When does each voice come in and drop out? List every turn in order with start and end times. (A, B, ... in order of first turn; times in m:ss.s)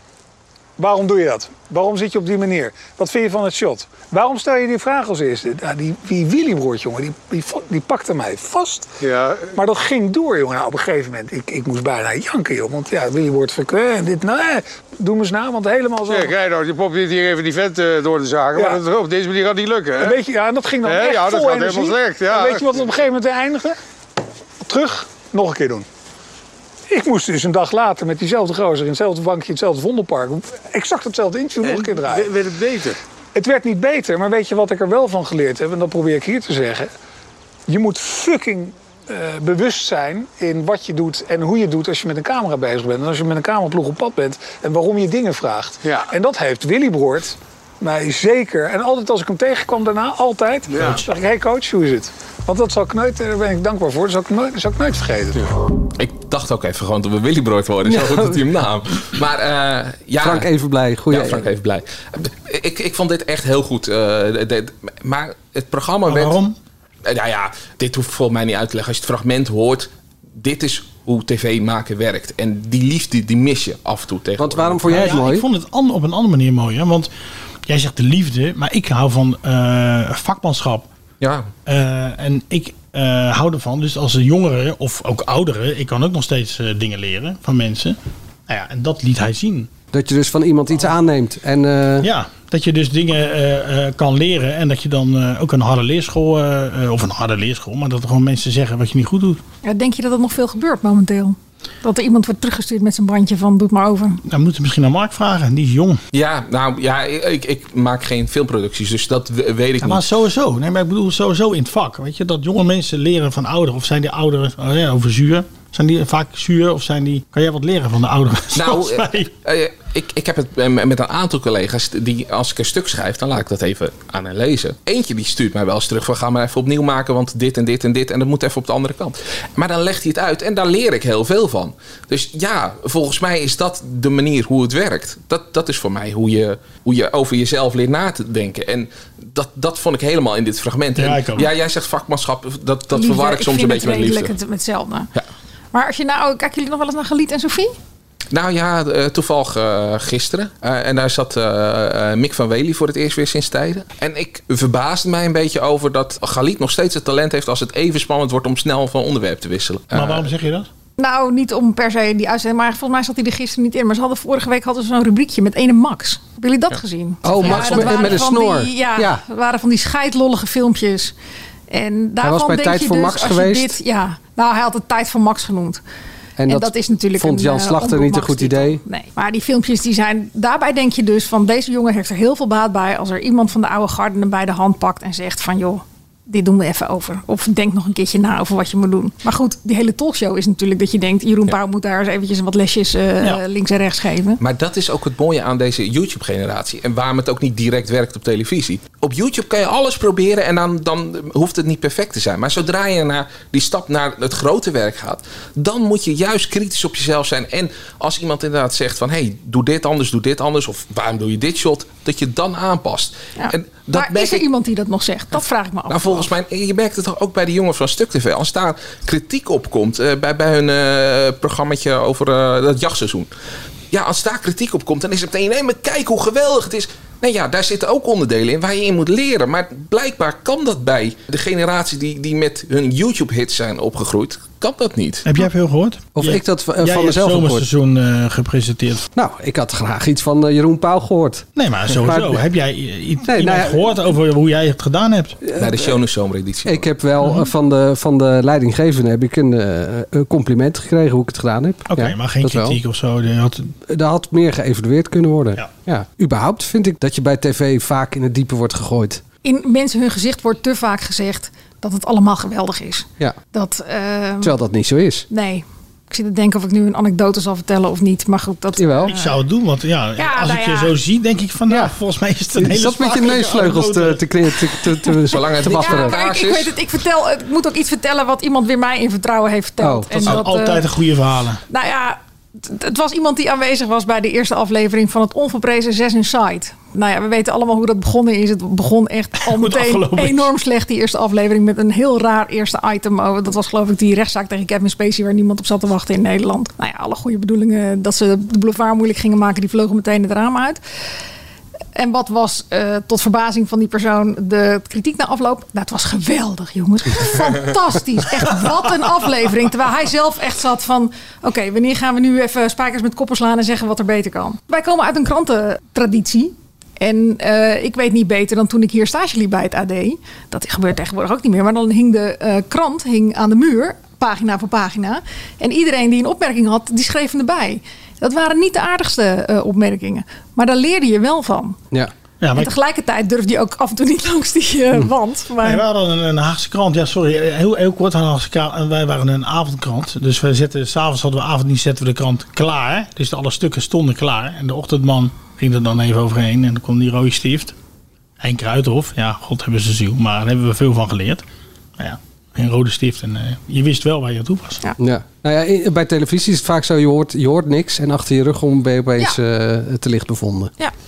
0:00.8-0:08.9 A
0:09.0-0:09.6 B
0:09.5-0:16.4 A
0:16.1-0:20.2 B
0:18.6-0:18.8 A
0:20.0-0:23.8 A
0:20.8-0:22.8 B
0:24.6-0:25.9 A
0:26.9-0:32.4 A
0:31.6-0:33.0 B
0:33.3-0:36.9 A
0:37.7-0:55.4 A
0:45.8-0:46.1 B
0:50.7-0:51.0 B
0:56.0-1:00.5 C
0:57.8-0:58.4 D
1:00.2-1:01.5 D
1:01.1-1:06.4 C
1:06.1-1:06.6 E
1:07.0-1:15.1 C
1:14.4-1:15.5 D
1:14.9-1:17.1 E
1:17.7-1:20.9 E
1:21.2-1:21.5 C
1:21.7-1:28.0 E
1:28.5-1:29.7 E
1:29.9-1:32.1 D
1:32.0-1:39.4 E
1:39.6-1:44.2 F
1:44.3-1:46.0 E
1:46.1-1:50.0 C
1:49.8-1:59.3 E
1:58.5-2:24.3 C
2:21.0-2:21.5 E
2:22.9-2:25.1 F
2:25.7-2:27.7 F
2:28.3-2:40.3 C
2:39.9-2:40.7 E
2:41.0-2:51.2 F
2:47.2-2:49.2 D
2:47.4-2:48.2 C
2:51.7-2:55.8 F
2:52.2-2:53.8 D
2:56.4-2:58.8 D
2:56.5-3:14.4 F
3:14.4-3:34.4 C
3:33.4-3:36.3 F
3:35.9-3:43.3 C
3:43.9-3:55.3 C
3:55.2-3:59.1 E
3:56.2-3:57.7 D
3:59.2-4:02.4 D
4:01.6-4:05.4 E
4:03.3-4:03.9 D
4:05.5-4:05.9 D
4:05.6-4:06.9 C
4:06.7-4:12.8 D
4:11.9-4:13.7 E
4:13.9-4:19.2 D
4:19.4-4:24.6 F
4:24.4-4:25.3 D
4:25.3-4:29.4 F
4:28.8-4:29.1 D
4:29.1-4:34.2 E
4:30.2-4:31.0 F
4:32.6-4:36.2 D
4:35.3-4:36.8 C
4:35.7-4:40.8 F
4:39.8-4:40.3 D
4:40.2-4:41.6 E
4:41.7-5:00.8 F
4:49.4-4:50.5 E
5:02.0-5:31.8 F
5:32.4-5:32.7 E
5:32.6-5:35.8 F
5:35.6-5:47.7 E
5:48.4-5:51.4 E
5:52.0-5:54.8 E
5:55.0-6:00.7 D